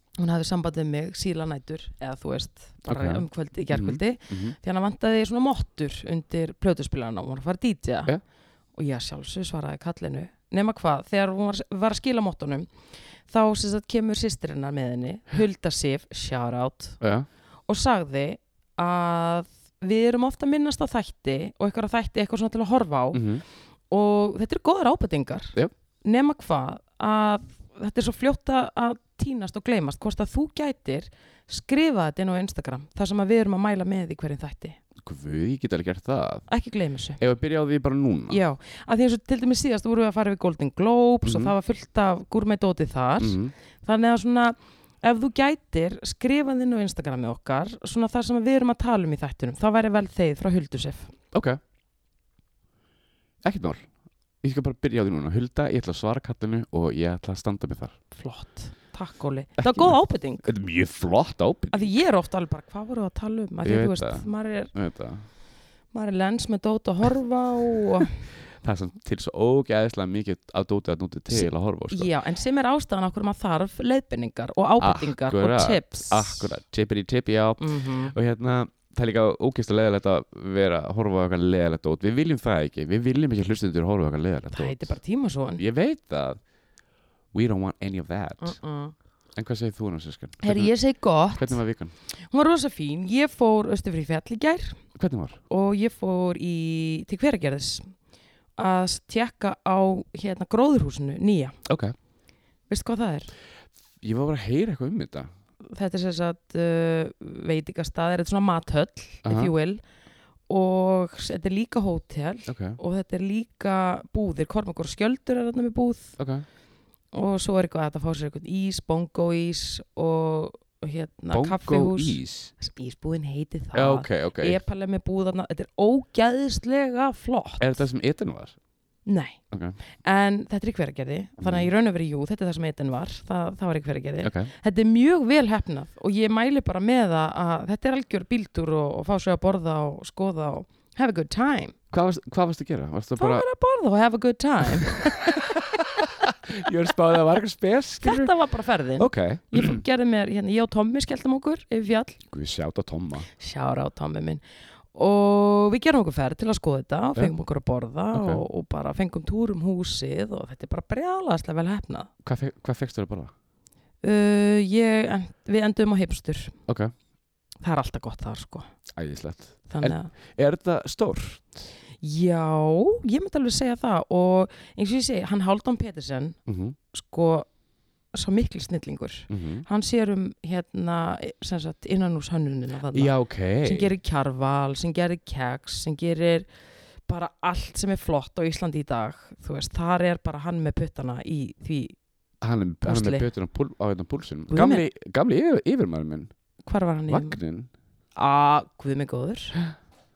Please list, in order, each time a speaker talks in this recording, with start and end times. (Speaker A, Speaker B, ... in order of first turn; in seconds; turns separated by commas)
Speaker A: 0.2-8.2, Speaker B: 2.9-4.5, Speaker A: 8.8-12.7, Speaker A: 13.3-17.0, Speaker B: 17.0-17.3, Speaker A: 17.7-23.3, Speaker B: 23.1-23.4, Speaker A: 23.9-34.8, Speaker B: 35.0-36.5, Speaker A: 36.5-37.2, Speaker B: 37.2-38.4, Speaker A: 38.3-51.1, Speaker B: 41.2-41.5, Speaker B: 43.2-43.5, Speaker B: 51.3-51.6, Speaker B: 53.4-53.9, Speaker B: 54.4-58.0, Speaker A: 58.1-60.5, Speaker B: 59.6-62.0, Speaker A: 61.7-64.7, Speaker B: 63.6-65.3, Speaker A: 65.9-68.3, Speaker B: 68.6-72.1, Speaker A: 71.3-76.5, Speaker B: 74.8-85.0, Speaker A: 77.6-78.1, Speaker A: 84.5-85.6, Speaker B: 85.6-86.4, Speaker B: 87.3-88.6, Speaker A: 88.4-88.9, Speaker B: 89.4-90.7, Speaker A: 90.4-91.6, Speaker B: 91.3-92.0, Speaker A: 92.2-94.8, Speaker B: 95.0-95.4, Speaker A: 95.5-97.9, Speaker A: 98.6-101.6, Speaker B: 101.7-102.0, Speaker A: 102.7-103.3, Speaker B: 104.0-105.3, Speaker A: 105.6-109.8, Speaker B: 109.2-109.5, Speaker A: 110.5-116.2, Speaker B: 112.5-112.8, Speaker B: 116.2-116.5, Speaker A: 117.1-127.8, Speaker B: 121.3-122.5, Speaker B: 123.8-124.6, Speaker B: 127.6-128.6, Speaker A: 129.1-129.4, Speaker B: 129.5-129.8, Speaker A: 130.0-141.8, Speaker B: 131.4-131.7, Speaker B: 134.2-134.5, Speaker B: 141.9-143.5, Speaker A: 143.2-145.6, Speaker B: 145.3-148.3, Speaker A: 148.0-152.2, Speaker B: 149.0-149.8, Speaker B: 152.3-153.3, Speaker A: 153.4-154.4, Speaker A: 154.9-162.1, Speaker B: 158.1-158.4, Speaker B: 162.2-163.3, Speaker A: 164.0-166.6, Speaker B: 166.7-166.9, Speaker A: 167.6-168.7, Speaker B: 169.0-171.7, Speaker A: 169.7-170.1, Speaker A: 172.0-176.4, Speaker B: 176.5-176.8, Speaker A: 176.9-177.5, Speaker A: 178.1-186.5, Speaker B: 179.3-179.7, Speaker B: 182.9-183.9, Speaker A: 187.1-192.0, Speaker B: 192.4-196.3, Speaker A: 192.8-193.3, Speaker A: 194.5-194.8, Speaker A: 196.7-197.4, Speaker B: 197.1-197.7, Speaker A: 198.2-199.6